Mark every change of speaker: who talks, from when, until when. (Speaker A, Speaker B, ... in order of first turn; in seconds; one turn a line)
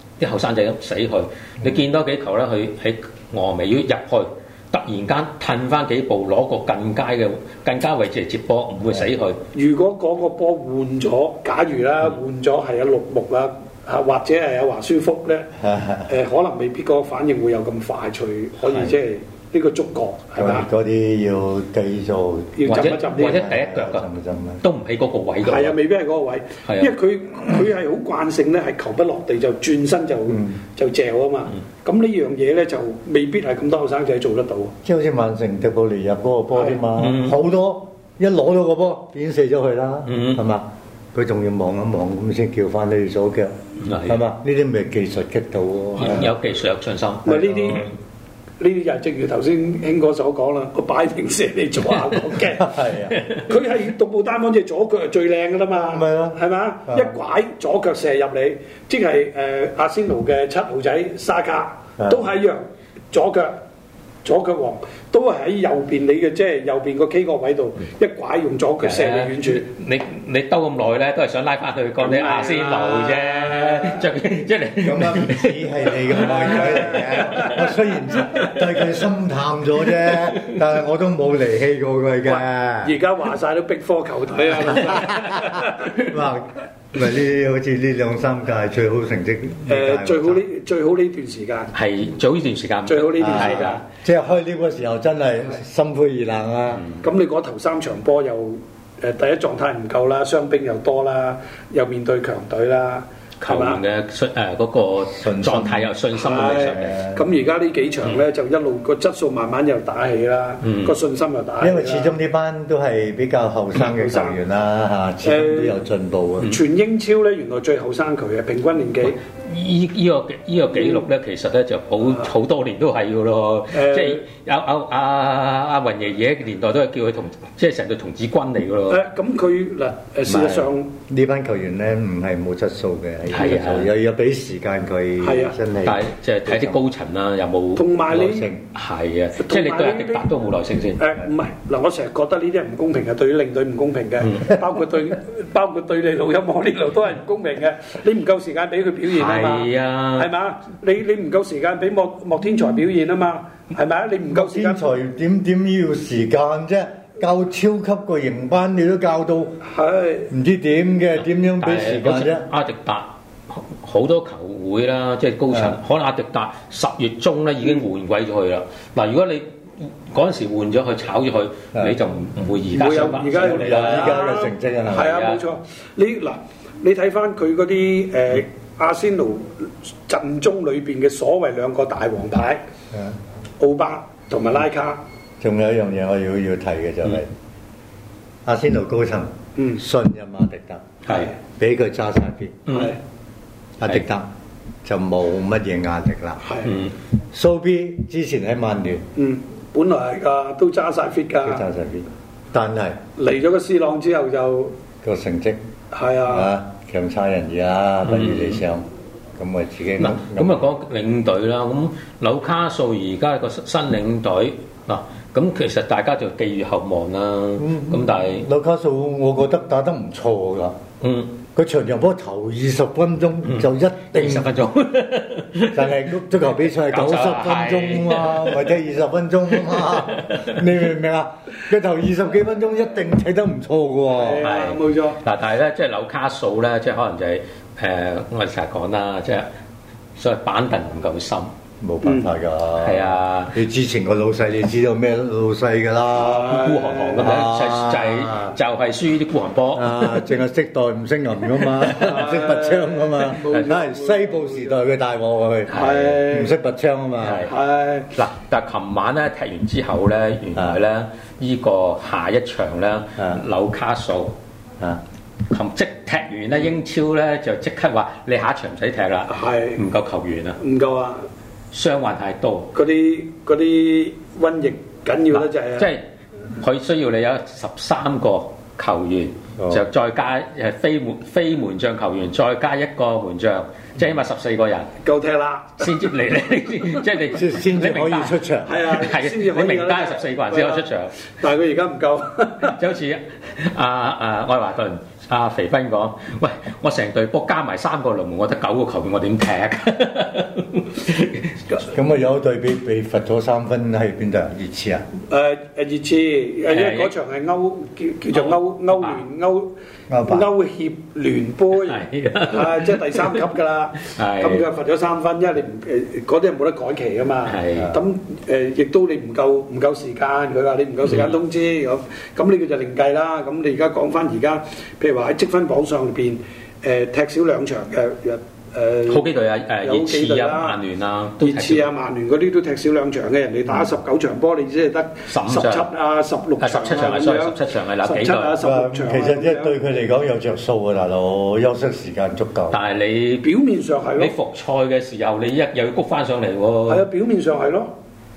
Speaker A: 0.2-9.4
Speaker B: 9.5-15.5
Speaker C: 15.6-16.1
Speaker B: 16.1-20.7
Speaker C: 20.4-24.6
Speaker B: 22.6-23.4
Speaker A: 22.6-24.1
Speaker A: 24.6-25.8
Speaker B: 25.4-34.7
Speaker A: 26.6-26.9
Speaker C: 34.8-46.3
Speaker A: 37.0-37.4
Speaker A: 40.1-40.4
Speaker A: 43.8-44.2
Speaker A: 46.0-47.9
Speaker B: 47.2-47.9
Speaker B: 48.6-52.7
Speaker C: 52.5-53.2
Speaker B: 53.4-63.6
Speaker C: 55.9-57.1
Speaker B: 64.2-69.7
Speaker A: 68.8-77.6
Speaker B: 72.0-74.0
Speaker C: 74.8-82.9
Speaker B: 76.2-77.6
Speaker B: 82.2-86.0
Speaker C: 84.9-90.4
Speaker B: 89.7-91.7
Speaker A: 91.7-93.8
Speaker B: 92.8-93.8
Speaker C: 93.2-96.8
Speaker B: 97.0-103.8
Speaker A: 103.4-107.0
Speaker C: 105.1-105.9
Speaker B: 106.2-112.2
Speaker C: 106.7-107.2
Speaker A: 110.6-110.9
Speaker C: 111.6-116.6
Speaker B: 113.8-114.4
Speaker B: 115.2-115.8
Speaker B: 116.4-119.2
Speaker A: 119.3-129.0
Speaker B: 123.7-124.2
Speaker B: 128.9-130.9
Speaker C: 130.3-136.8
Speaker A: 133.3-133.9
Speaker B: 135.2-135.6
Speaker A: 135.8-138.0
Speaker B: 137.8-138.5
Speaker C: 138.1-138.6
Speaker A: 138.7-141.0
Speaker B: 139.4-140.3
Speaker B: 141.0-154.9
Speaker A: 149.1-150.3
Speaker C: 154.3-159.6
Speaker B: 159.6-160.3
Speaker C: 160.3-162.4
Speaker A: 161.6-174.2
Speaker C: 165.5-165.8
Speaker B: 172.7-182.6
Speaker C: 173.4-175.2
Speaker A: 174.9-175.4
Speaker B: 183.6-185.0
Speaker C: 185.4-187.3
Speaker C: 188.4-192.6
Speaker B: 189.6-189.8
Speaker B: 191.1-191.3
Speaker A: 192.7-192.9
Speaker B: 192.7-193.0
Speaker C: 193.8-194.3
Speaker C: 194.8-196.4
Speaker B: 196.4-196.8
Speaker A: 196.6-196.9
Speaker C: 197.3-199.1
Speaker B: 199.2-201.6
Speaker C: 201.4-203.0
Speaker B: 203.2-204.7
Speaker C: 205.0-205.6
Speaker B: 205.9-206.5
Speaker C: 206.3-210.6
Speaker A: 208.0-208.6
Speaker A: 210.0-218.5
Speaker C: 217.6-220.8
Speaker A: 221.0-221.3
Speaker C: 221.5-224.5
Speaker A: 223.5-226.0
Speaker C: 225.7-234.4
Speaker A: 226.8-228.7
Speaker A: 229.7-230.6
Speaker B: 234.1-235.2
Speaker A: 234.4-239.5
Speaker A: 240.2-241.5
Speaker C: 241.8-246.6
Speaker A: 242.8-243.6
Speaker B: 246.2-247.3
Speaker A: 246.3-250.3
Speaker C: 247.2-248.6
Speaker C: 249.7-257.5
Speaker B: 251.9-254.8
Speaker B: 255.7-256.5
Speaker A: 255.7-256.1
Speaker A: 257.2-257.5
Speaker B: 257.4-258.1
Speaker A: 258.1-264.3
Speaker C: 263.2-263.4
Speaker A: 265.5-270.6
Speaker B: 269.3-269.8
Speaker B: 270.6-271.3
Speaker A: 271.7-272.7
Speaker B: 272.7-275.9
Speaker A: 275.3-276.0
Speaker A: 276.6-284.9
Speaker C: 279.6-279.9
Speaker B: 285.0-285.9
Speaker A: 285.8-291.1
Speaker C: 287.3-288.7
Speaker B: 288.6-292.7
Speaker A: 292.7-301.6
Speaker C: 301.9-305.0
Speaker B: 305.3-309.7
Speaker A: 306.7-307.1
Speaker A: 308.3-309.2
Speaker C: 310.1-310.5
Speaker B: 310.2-329.3
Speaker A: 311.8-313.4
Speaker A: 314.0-314.6
Speaker A: 317.4-317.9
Speaker C: 317.7-318.0
Speaker A: 329.1-331.9
Speaker B: 329.8-330.8
Speaker B: 331.4-339.7
Speaker A: 335.3-335.9
Speaker A: 336.6-338.6
Speaker C: 338.6-342.8
Speaker A: 342.7-343.5
Speaker B: 343.4-344.3
Speaker A: 344.2-347.0
Speaker B: 346.9-347.9